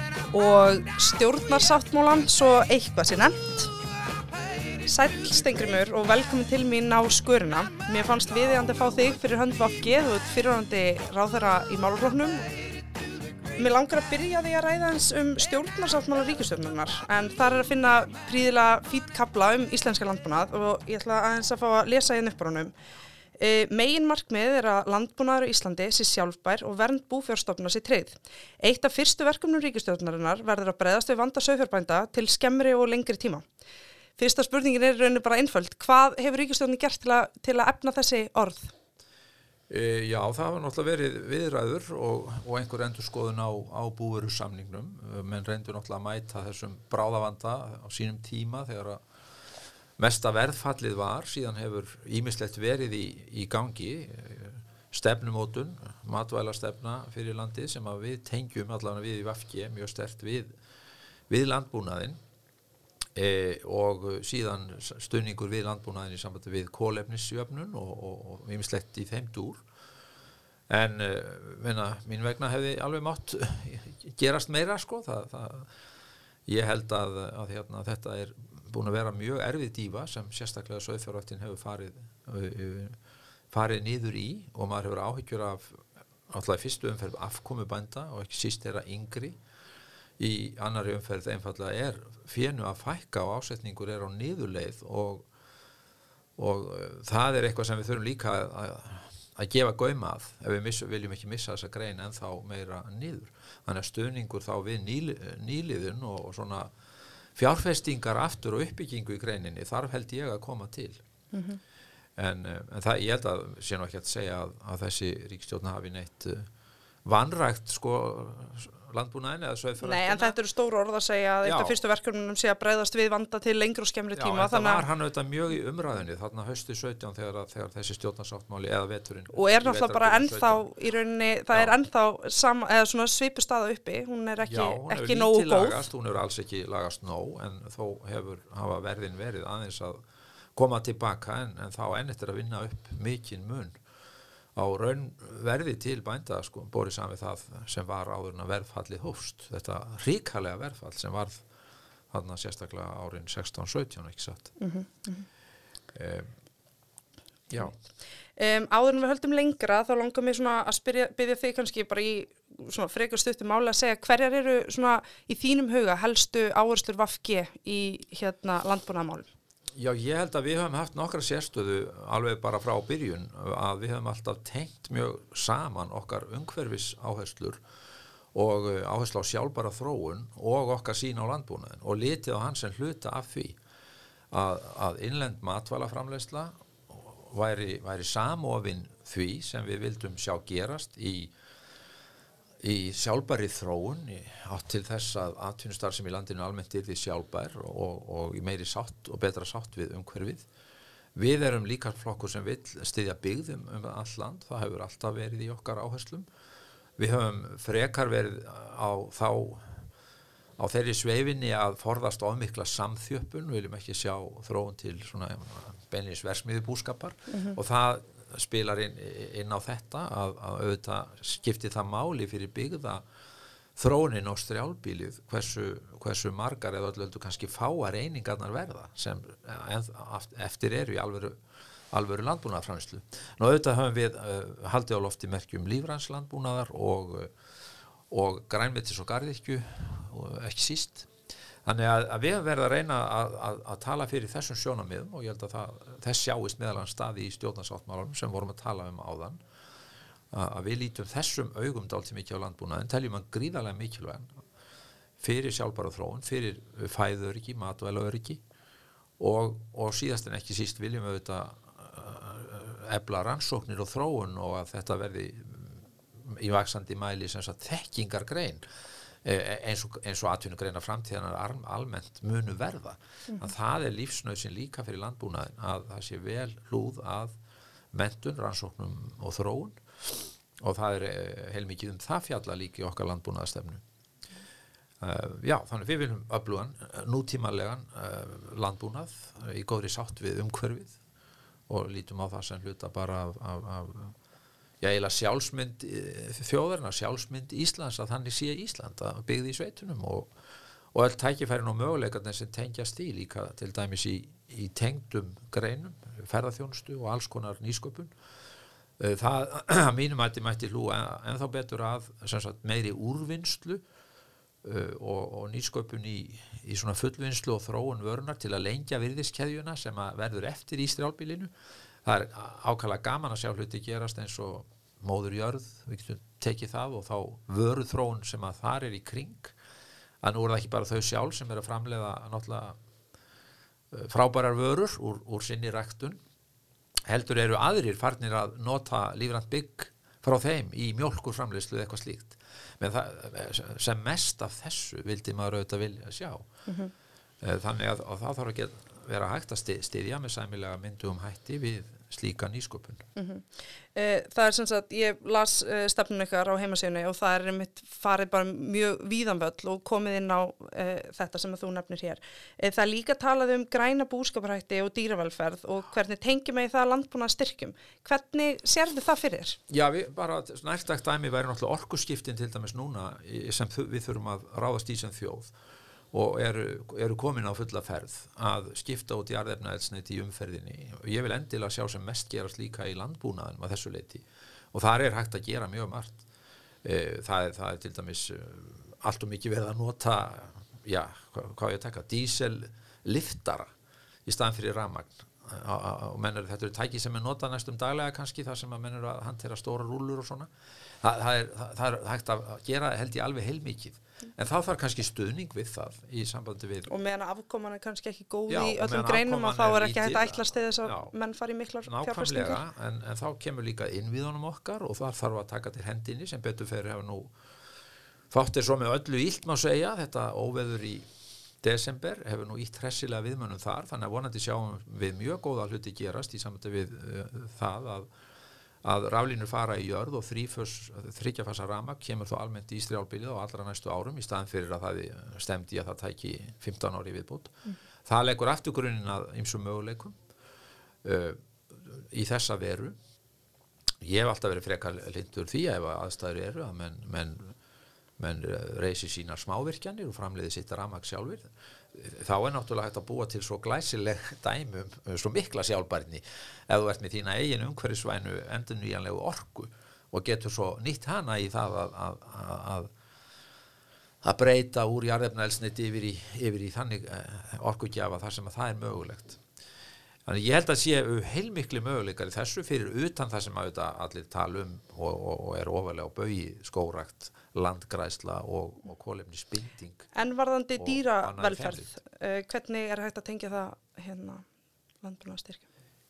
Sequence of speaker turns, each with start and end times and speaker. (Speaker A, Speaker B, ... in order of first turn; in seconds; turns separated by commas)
Speaker A: 0.3-3.7, Speaker A: 4.8-12.5, Speaker A: 13.6-22.7, Speaker A: 23.4-33.4, Speaker A: 34.2-38.7, Speaker B: 39.7-49.0, Speaker B: 50.0-60.5, Speaker B: 61.3-62.2, Speaker B: 63.1-69.6, Speaker B: 70.7-75.7, Speaker B: 76.5-83.0, Speaker B: 83.5-89.4, Speaker B: 90.2-95.3, Speaker B: 96.4-106.7, Speaker B: 107.3-111.0, Speaker A: 111.3-111.6, Speaker B: 112.2-116.5, Speaker B: 117.0-120.3, Speaker A: 119.8-124.8, Speaker B: 121.4-121.8, Speaker B: 124.2-130.7, Speaker A: 129.3-135.9, Speaker B: 131.5-131.8, Speaker B: 134.4-140.0, Speaker B: 140.6-143.7, Speaker B: 144.5-151.4, Speaker B: 152.1-154.5, Speaker A: 154.6-155.2, Speaker B: 155.9-156.3, Speaker B: 157.5-157.7, Speaker A: 158.4-169.3, Speaker B: 169.8-177.6, Speaker B: 178.3-183.6, Speaker B: 184.3-191.3, Speaker B: 192.6-200.4, Speaker B: 201.1-206.2, Speaker B: 207.0-209.8, Speaker B: 210.6-223.0, Speaker A: 217.3-217.6, Speaker B: 223.8-231.3, Speaker B: 231.9-237.3, Speaker B: 238.1-241.1, Speaker B: 241.6-249.4, Speaker B: 250.3-254.3, Speaker B: 255.2-258.4, Speaker B: 259.2-268.6, Speaker B: 269.2-277.3, Speaker B: 277.9-283.8, Speaker B: 285.0-291.0, Speaker B: 291.7-294.1, Speaker B: 294.8-300.3, Speaker B: 300.9-308.1, Speaker B: 309.0-313.8, Speaker B: 314.6-321.5, Speaker B: 322.0-329.5, Speaker B: 330.2-332.8, Speaker B: 333.9-336.2, Speaker B: 337.1-346.4, Speaker A: 346.7-346.9, Speaker B: 347.4-353.0, Speaker A: 353.1-369.6, Speaker B: 369.7-375.5, Speaker B: 376.1-386.2, Speaker B: 386.8-393.7, Speaker B: 394.2-400.5, Speaker B: 401.0-406.9, Speaker A: 406.9-412.6, Speaker B: 408.5-411.1, Speaker B: 411.8-417.3, Speaker B: 418.3-421.1, Speaker B: 421.6-428.1, Speaker B: 428.8-437.5, Speaker B: 438.1-440.1, Speaker B: 441.0-442.9, Speaker B: 444.0-447.5, Speaker B: 448.2-462.9, Speaker B: 464.2-469.4, Speaker B: 470.2-480.1, Speaker A: 480.1-484.4, Speaker B: 480.8-481.9, Speaker A: 485.0-485.6